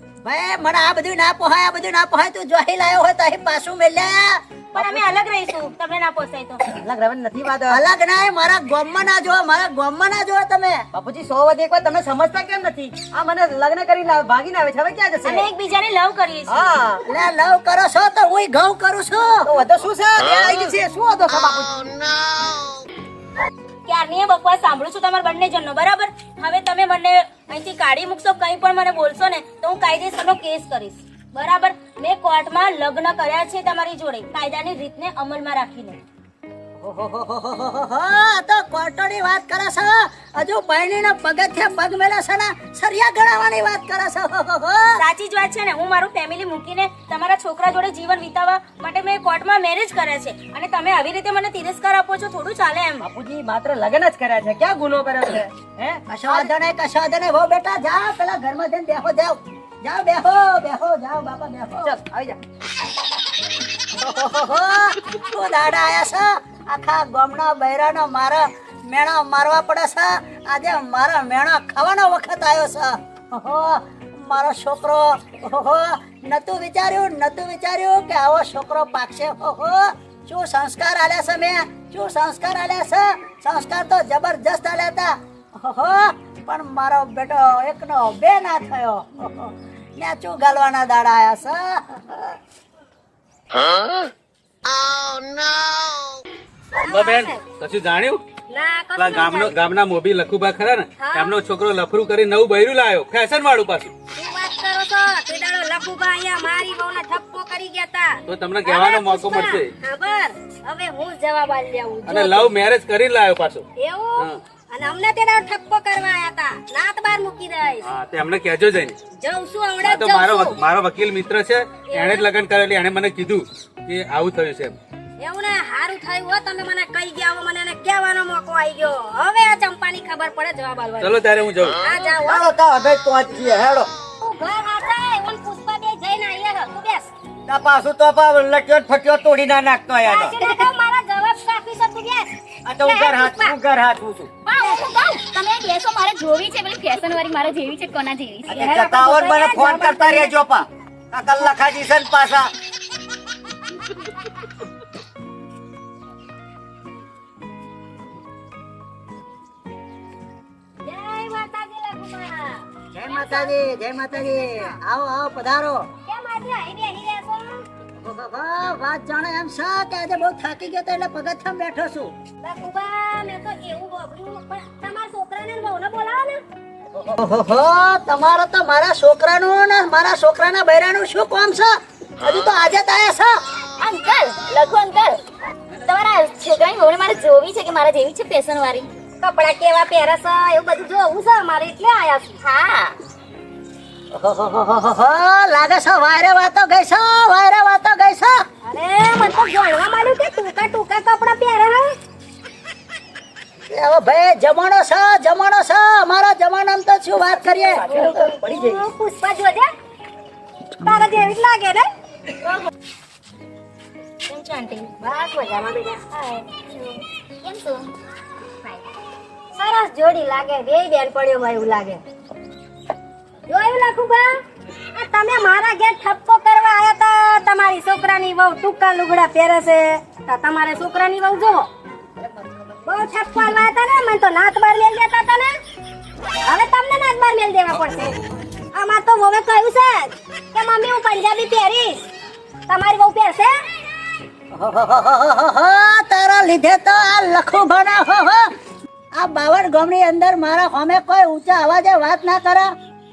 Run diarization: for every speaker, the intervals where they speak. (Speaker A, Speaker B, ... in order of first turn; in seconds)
Speaker A: 0.2-4.4, 7.7-10.8, 17.1-19.5, 36.8-45.0, 56.1-61.9, 64.0-92.4, 162.9-165.9, 168.0-172.1, 177.0-183.3, 194.1-198.4, 203.7-208.2, 244.5-248.4, 249.2-252.7
Speaker B: 4.7-6.7, 15.2-16.8, 23.9-36.0, 45.0-53.1, 214.3-214.9
Speaker C: 6.8-7.8, 11.0-15.5, 16.5-17.0, 19.6-21.8, 53.0-56.0, 62.0-62.4
Speaker D: 96.8-97.4, 98.5-99.5, 101.0-101.4, 104.2-112.5, 113.8-117.9, 119.2-120.6, 121.9-122.3, 125.2-131.2, 131.8-132.5, 134.2-137.1, 140.0-143.6, 144.6-144.9, 148.8-150.3, 160.8-163.6, 164.3-164.7, 166.1-167.7, 172.4-176.4, 189.2-192.9, 198.7-201.9, 207.8-209.7, 210.8-211.9, 215.0-217.0, 219.6-222.0, 223.5-224.3, 224.9-231.7, 232.8-235.5, 236.4-238.2, 238.8-242.0, 242.7-243.6
Speaker E: 96.8-98.2, 99.0-103.9, 108.3-109.7, 112.1-113.6, 117.8-119.0, 119.8-124.8, 131.0-131.8
Speaker F: 132.3-133.9, 139.5-140.3, 143.0-144.3, 148.5-150.6, 151.4-151.8
Speaker G: 144.5-149.1, 183.8-185.2, 185.8-188.9, 217.4-217.9